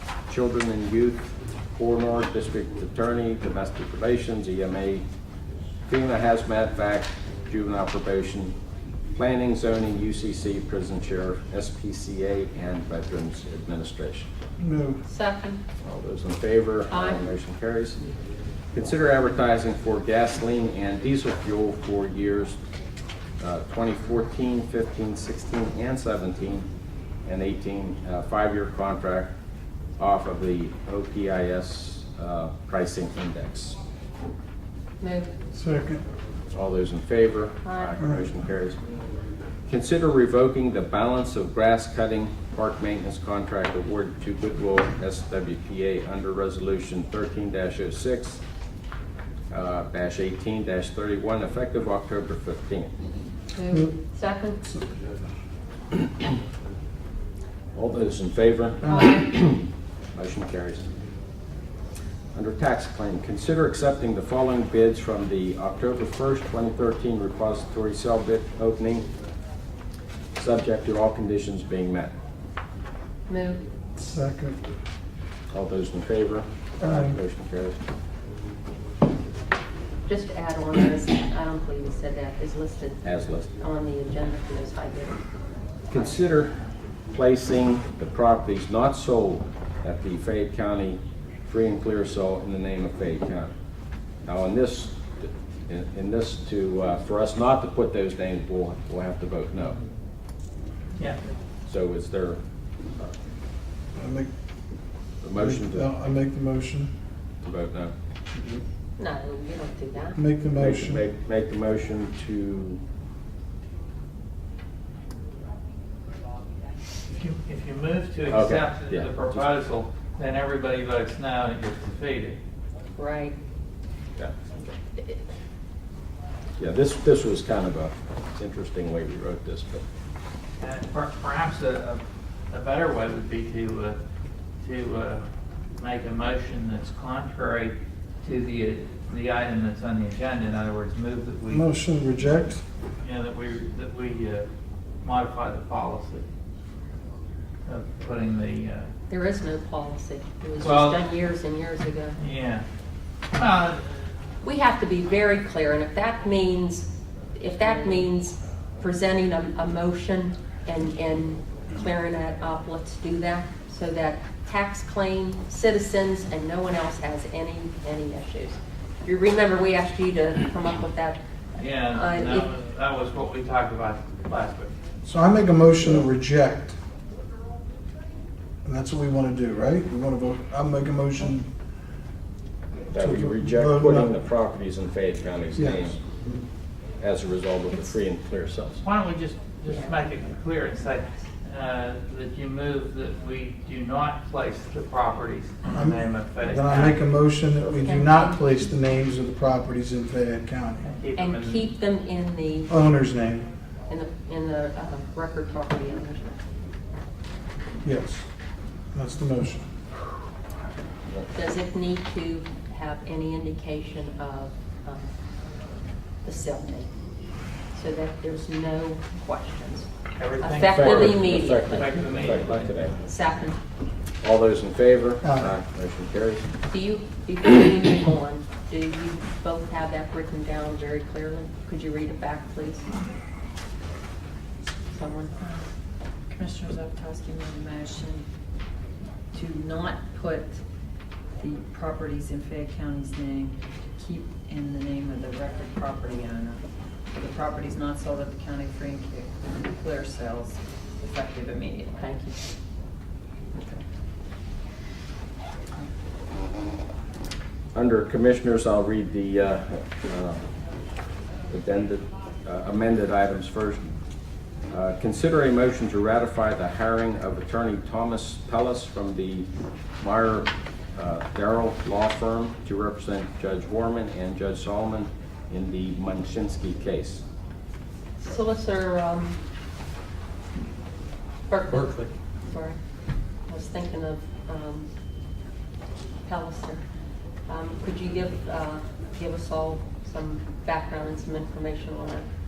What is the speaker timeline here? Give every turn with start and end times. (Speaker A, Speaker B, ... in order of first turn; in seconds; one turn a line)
Speaker A: 0.3-5.0
Speaker A: 5.9-8.6
Speaker A: 9.1-14.3
Speaker B: 14.6-15.0
Speaker C: 15.1-15.6
Speaker A: 15.8-18.0
Speaker C: 16.9-17.3
Speaker A: 18.7-22.6
Speaker A: 23.4-26.7
Speaker A: 27.2-29.3
Speaker A: 30.0-33.8
Speaker C: 35.0-35.3
Speaker B: 35.5-36.0
Speaker A: 36.5-38.8
Speaker C: 37.6-38.0
Speaker B: 38.0-38.3
Speaker A: 39.7-48.4
Speaker A: 49.5-52.9
Speaker C: 53.5-54.6
Speaker B: 54.6-55.1
Speaker A: 57.7-60.9
Speaker C: 58.9-59.2
Speaker A: 62.3-69.1
Speaker A: 70.3-72.1
Speaker C: 73.3-73.6
Speaker B: 74.0-74.6
Speaker A: 75.5-77.8
Speaker B: 76.8-77.2
Speaker C: 80.1-85.2
Speaker A: 83.0-83.5
Speaker A: 85.9-86.6
Speaker A: 87.1-93.5
Speaker A: 94.3-99.8
Speaker A: 101.7-102.4
Speaker B: 103.9-104.3
Speaker A: 105.2-105.9
Speaker B: 105.4-106.9
Speaker A: 107.4-107.9
Speaker C: 109.0-110.2
Speaker B: 110.2-111.0
Speaker A: 110.6-112.8
Speaker D: 117.1-122.4
Speaker A: 118.3-119.4
Speaker C: 123.0-123.4
Speaker A: 124.2-124.7
Speaker A: 126.6-129.8
Speaker D: 130.6-134.0
Speaker D: 134.6-135.3
Speaker D: 135.8-141.7
Speaker B: 141.5-142.6
Speaker D: 143.0-144.5
Speaker D: 145.0-146.3
Speaker D: 147.7-148.9
Speaker C: 149.1-152.2
Speaker D: 150.6-151.0
Speaker D: 152.2-152.7
Speaker D: 153.3-154.0
Speaker C: 154.4-171.2
Speaker D: 171.6-174.7
Speaker C: 171.8-172.5
Speaker B: 175.1-176.8
Speaker A: 175.8-176.1
Speaker B: 178.7-181.5
Speaker A: 182.9-186.0
Speaker B: 183.0-184.1
Speaker B: 185.6-186.4
Speaker A: 187.0-188.8
Speaker D: 188.8-196.9
Speaker B: 195.7-200.9
Speaker C: 196.7-197.0
Speaker C: 197.8-198.7
Speaker D: 200.8-201.7
Speaker C: 201.2-202.7
Speaker B: 202.7-203.5
Speaker C: 203.9-206.4
Speaker B: 207.8-208.2
Speaker B: 208.9-209.7
Speaker C: 211.3-215.1
Speaker C: 216.2-216.9
Speaker C: 217.7-222.3
Speaker D: 220.2-222.8
Speaker A: 220.7-223.0
Speaker C: 223.1-223.6
Speaker A: 224.2-226.5
Speaker B: 225.2-225.5
Speaker C: 226.7-232.9
Speaker C: 234.9-235.3
Speaker E: 235.4-235.7
Speaker E: 236.3-238.3
Speaker E: 239.3-240.6
Speaker E: 241.4-246.6
Speaker E: 247.1-252.1
Speaker C: 252.0-252.4
Speaker A: 257.7-260.5
Speaker A: 261.5-264.0
Speaker A: 264.7-269.5
Speaker A: 270.0-277.2
Speaker C: 278.2-279.4
Speaker C: 281.5-282.8
Speaker C: 283.5-284.9
Speaker C: 286.3-286.8
Speaker C: 287.5-292.3